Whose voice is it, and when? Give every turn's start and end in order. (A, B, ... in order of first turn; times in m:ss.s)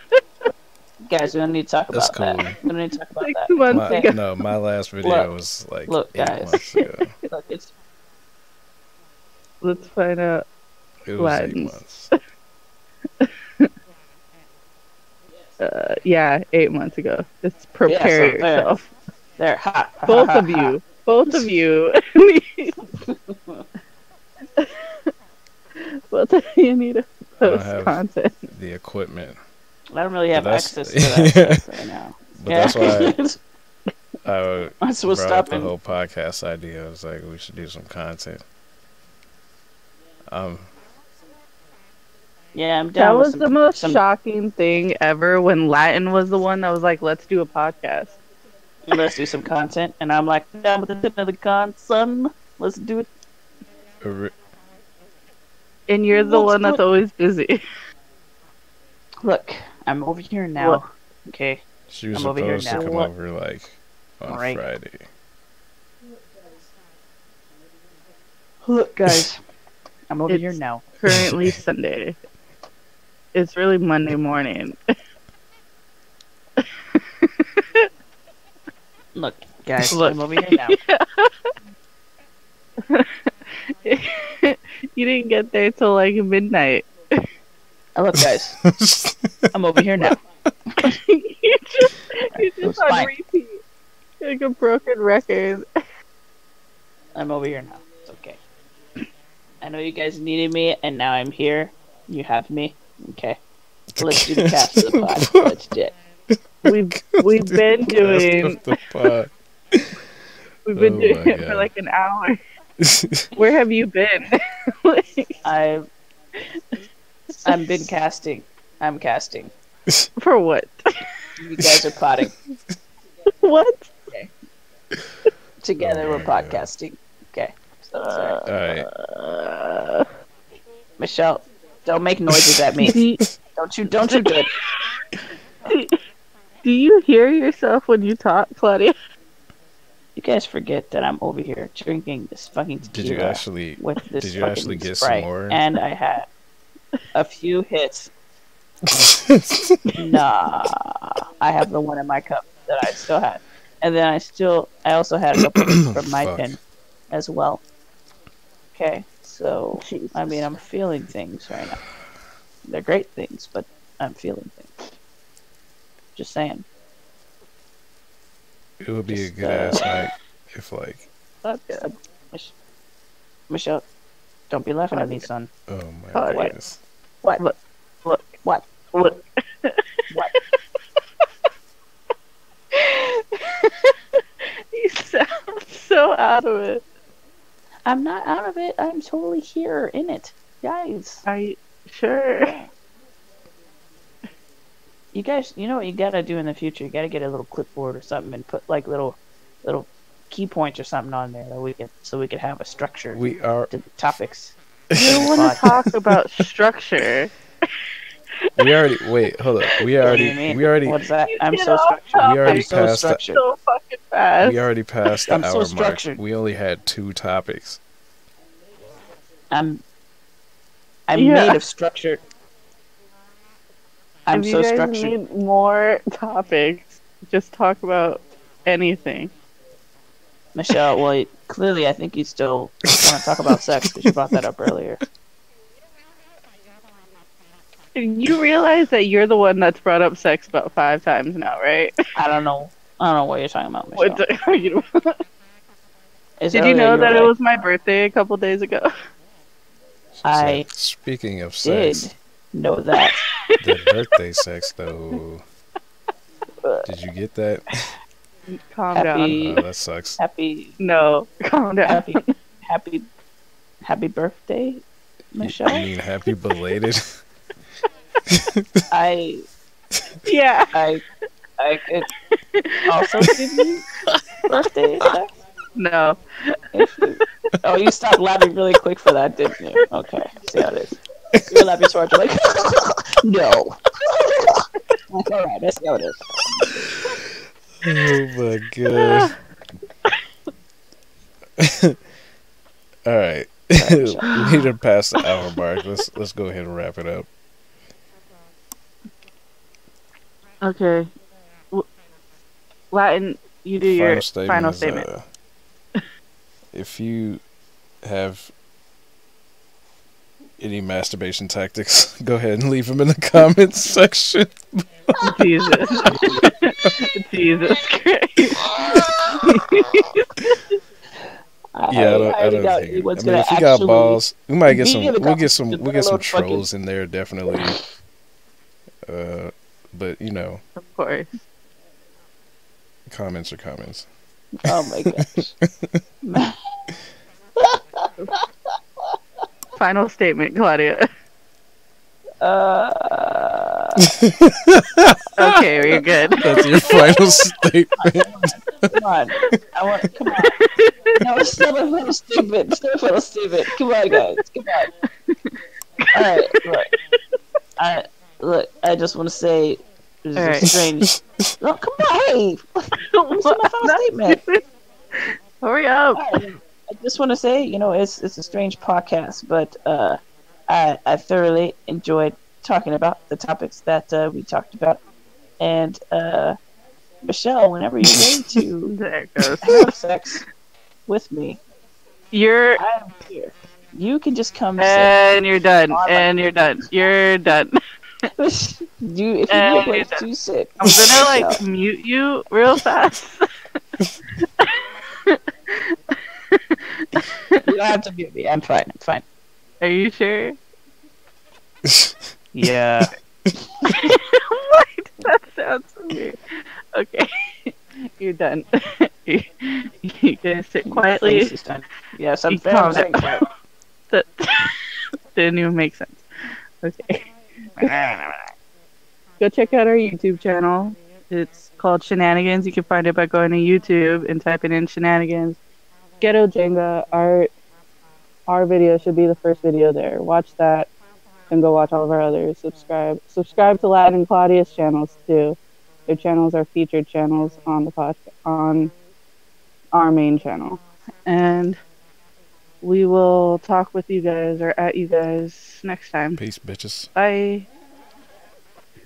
0:01.1-0:04.1 A
0:01.9-0:02.6 B
0:03.2-0:04.2 C
0:03.7-0:07.1 B
0:05.0-0:05.3 A
0:05.9-0:06.6 A
0:07.3-0:07.7 A
0:09.6-0:10.5 C
0:11.1-0:12.1 B
0:11.2-0:11.8 C
0:13.2-0:13.7 C
0:15.6-0:18.9 C
0:17.8-0:18.8 A
0:19.4-0:20.8 A
0:20.1-0:22.7 C
0:23.0-0:23.6 A
0:24.6-0:24.9 C
0:25.8-0:28.5 C
0:27.4-0:28.0 B
0:28.5-0:29.4 B
0:29.9-0:33.4 A
0:30.3-0:31.7 B
0:32.4-0:33.2 B
0:34.2-0:38.4 B
0:34.8-0:35.7 A
0:40.3-0:40.7 B
0:42.5-0:44.0 A
0:43.0-0:48.2 C
0:48.9-0:53.1 A
0:54.0-0:54.3 B
0:55.9-0:57.6 C
0:56.1-0:56.8 A
0:59.2-1:03.1 A
1:01.9-1:05.0 B
1:02.6-1:02.9 C
1:04.2-1:04.6 A
1:08.6-1:09.4 A
1:10.1-1:10.8 A
1:10.3-1:12.2 C
1:13.3-1:14.8 C
1:16.9-1:17.3 C
1:19.1-1:20.8 A
1:19.9-1:21.3 C
1:22.9-1:27.2 C
1:28.0-1:28.6 A
1:28.2-1:29.3 B
1:29.5-1:30.2 A
1:30.8-1:33.6 C
1:32.3-1:33.1 A
1:34.2-1:35.6 C
1:37.1-1:38.4 A
1:39.6-1:43.4 A
1:44.0-1:45.5 B
1:44.0-1:45.9 A
1:46.6-1:48.6 C
1:46.7-1:50.0 B
1:50.6-1:52.4 C
1:50.7-1:51.7 B
1:52.8-1:53.2 B
1:53.4-1:55.4 C
1:55.4-1:55.9 A
1:57.4-1:59.5 A
1:57.5-1:57.8 C
2:00.2-2:01.0 C
2:01.4-2:02.3 A
2:03.4-2:03.9 C
2:05.6-2:08.4 A
2:05.8-2:06.7 B
2:08.0-2:10.0 C
2:08.4-2:08.9 B
2:11.0-2:13.0 A
2:12.8-2:13.2 C
2:13.6-2:14.5 A
2:14.1-2:14.9 C
2:15.7-2:16.0 C
2:16.6-2:18.9 C
2:20.2-2:26.3 A
2:22.9-2:25.6 B
2:27.1-2:28.1 A
2:28.9-2:29.8 B
2:30.0-2:36.6 A
2:35.7-2:36.6 B
2:37.1-2:37.6 A
2:38.7-2:41.8 A
2:39.8-2:40.5 C
2:42.7-2:44.9 A
2:46.1-2:46.6 A
2:48.8-2:51.1 B
2:49.1-2:49.9 A
2:51.4-2:51.9 C
2:51.7-2:52.5 A
2:53.5-2:53.8 A
2:54.5-2:55.5 A
2:54.9-2:55.2 C
2:55.7-2:56.8 B
2:56.1-2:56.5 C
2:57.4-2:58.3 C
2:58.2-2:58.7 A
2:58.9-2:59.8 C
3:02.7-3:06.8 C
3:07.8-3:11.2 A
3:11.2-3:12.6 C
3:12.4-3:12.7 A
3:15.1-3:25.7 A
3:23.1-3:23.7 B
3:24.9-3:26.1 B
3:24.9-3:27.3 C
3:28.6-3:31.0 B
3:30.0-3:33.4 A
3:31.3-3:32.8 C
3:32.2-3:33.2 B
3:33.3-3:34.6 C
3:34.4-3:37.8 B
3:35.3-3:36.2 A
3:39.5-3:39.8 A
3:41.1-3:42.2 A
3:41.1-3:41.6 C
3:44.3-3:45.1 A
3:44.3-3:49.3 C
3:50.5-3:55.0 A
3:53.5-3:54.1 B
3:57.9-4:01.9 C
4:02.1-4:04.2 A
4:04.0-4:05.1 C
4:06.4-4:07.3 A
4:06.5-4:08.9 C
4:10.2-4:12.1 B
4:10.2-4:10.7 A
4:11.6-4:13.2 A
4:13.0-4:13.9 C
4:13.6-4:15.4 B
4:16.6-4:16.9 A
4:16.8-4:17.9 B
4:18.5-4:19.4 C
4:18.9-4:19.6 A
4:19.3-4:20.2 B
4:20.2-4:20.8 A
4:20.8-4:22.3 C
4:21.8-4:23.0 A
4:23.8-4:25.9 A
4:25.4-4:27.2 B
4:28.3-4:28.6 B
4:28.9-4:29.4 A
4:30.2-4:30.7 C
4:30.7-4:31.0 A
4:31.6-4:32.1 A
4:32.3-4:33.6 C
4:32.9-4:33.8 A
4:34.5-4:35.3 A
4:35.8-4:36.6 C
4:36.7-4:41.0 A
4:41.5-4:46.7 A
4:47.8-4:49.4 B
4:48.9-4:49.3 C
4:51.6-4:52.0 B
4:53.0-4:57.3 B
4:53.8-4:54.5 A
5:00.6-5:01.1 C
5:02.9-5:05.1 C
5:03.9-5:05.2 B
5:06.7-5:07.4 B
5:08.0-5:08.5 B
5:10.6-5:15.4 B
5:15.2-5:20.6 C
5:15.9-5:16.4 A
5:16.1-5:16.4 B
5:18.6-5:19.6 A
5:21.2-5:26.6 A
5:21.9-5:27.8 B
5:29.1-5:30.6 B
5:30.8-5:31.4 C
5:33.1-5:34.1 B
5:34.6-5:35.5 A
5:34.7-5:36.0 B
5:36.2-5:36.6 A
5:39.8-5:41.1 C
5:42.4-5:44.0 A
5:44.0-5:48.9 B
5:45.4-5:47.2 C
5:46.5-5:47.2 A
5:48.0-5:50.5 A
5:50.3-5:51.2 C
5:51.2-5:54.9 A
5:55.3-5:57.2 C
5:56.1-5:56.9 A
5:57.8-6:01.1 A
6:00.4-6:00.7 C
6:00.6-6:01.5 B
6:01.6-6:04.4 A
6:03.1-6:06.3 C
6:06.1-6:15.0 A
6:15.6-6:16.6 A
6:17.2-6:18.9 A
6:18.1-6:18.6 B
6:18.9-6:19.9 C
6:19.6-6:20.4 A
6:21.1-6:21.6 A
6:22.3-6:22.8 C
6:22.8-6:25.2 A
6:24.8-6:27.8 C
6:25.9-6:26.4 A
6:28.4-6:31.6 A
6:29.5-6:30.2 C
6:30.8-6:33.5 C
6:35.3-6:37.6 C
6:37.6-6:39.2 A
6:39.8-6:40.6 C
6:41.8-6:43.1 B
6:42.5-6:43.1 A
6:43.9-6:46.4 C
6:46.9-6:51.5 C
6:50.8-6:53.4 A
6:52.5-6:53.4 C
6:54.1-6:56.2 C
6:56.8-6:58.5 C
6:59.4-7:05.6 C
7:06.2-7:07.5 C
7:08.5-7:10.9 C
7:11.5-7:18.9 C
7:19.9-7:21.8 C
7:22.8-7:26.4 C
7:26.4-7:27.1 B
7:27.1-7:27.7 C